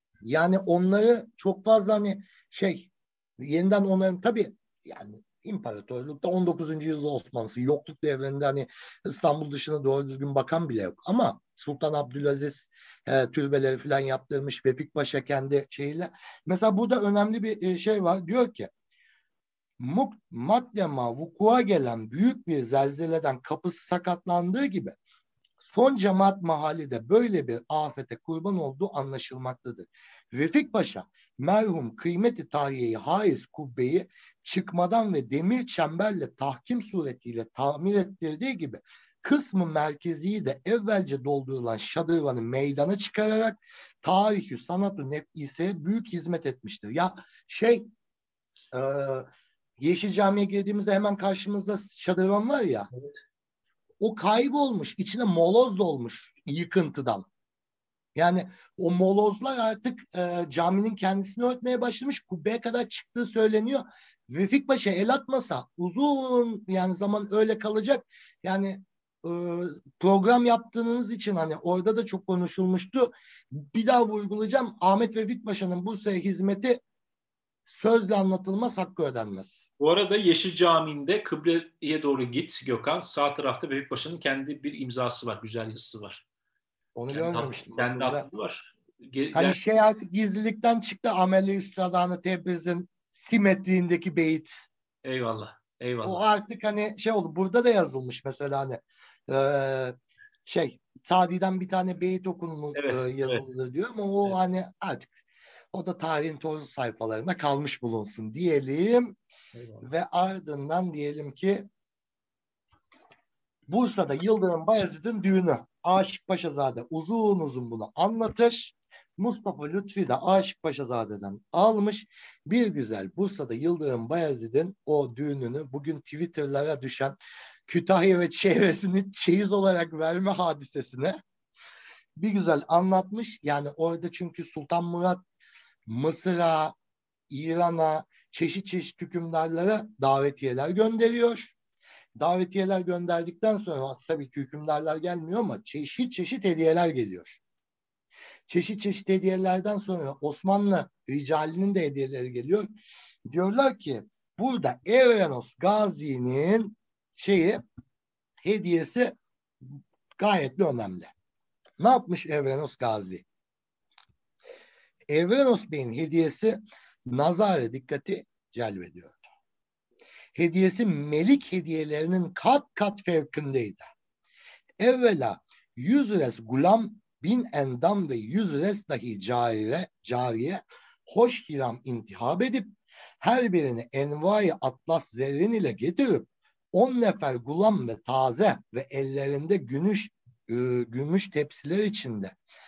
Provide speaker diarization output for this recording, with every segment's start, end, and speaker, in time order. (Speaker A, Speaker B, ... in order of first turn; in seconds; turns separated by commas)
Speaker A: 0.2-18.7, Speaker A: 19.8-24.9, Speaker A: 25.6-47.9, Speaker A: 48.7-49.3, Speaker A: 49.8-52.9, Speaker B: 52.9-53.2, Speaker A: 54.0-57.2, Speaker A: 58.1-76.8, Speaker A: 77.7-79.7, Speaker B: 79.8-86.2, Speaker A: 86.9-88.3, Speaker B: 87.1-89.6, Speaker A: 89.3-94.7, Speaker B: 95.0-96.2, Speaker A: 96.0-99.9, Speaker A: 100.5-105.2, Speaker B: 102.7-103.4, Speaker A: 105.7-109.2, Speaker B: 109.5-109.9, Speaker A: 109.8-111.7, Speaker A: 113.7-131.2, Speaker A: 132.2-135.2, Speaker A: 135.8-136.7, Speaker A: 137.3-141.6, Speaker A: 142.2-147.4, Speaker A: 148.5-152.7, Speaker A: 153.3-157.6, Speaker A: 158.4-161.1, Speaker A: 161.8-163.2, Speaker A: 165.1-169.2, Speaker A: 170.3-173.8, Speaker A: 174.8-182.7, Speaker A: 183.2-192.3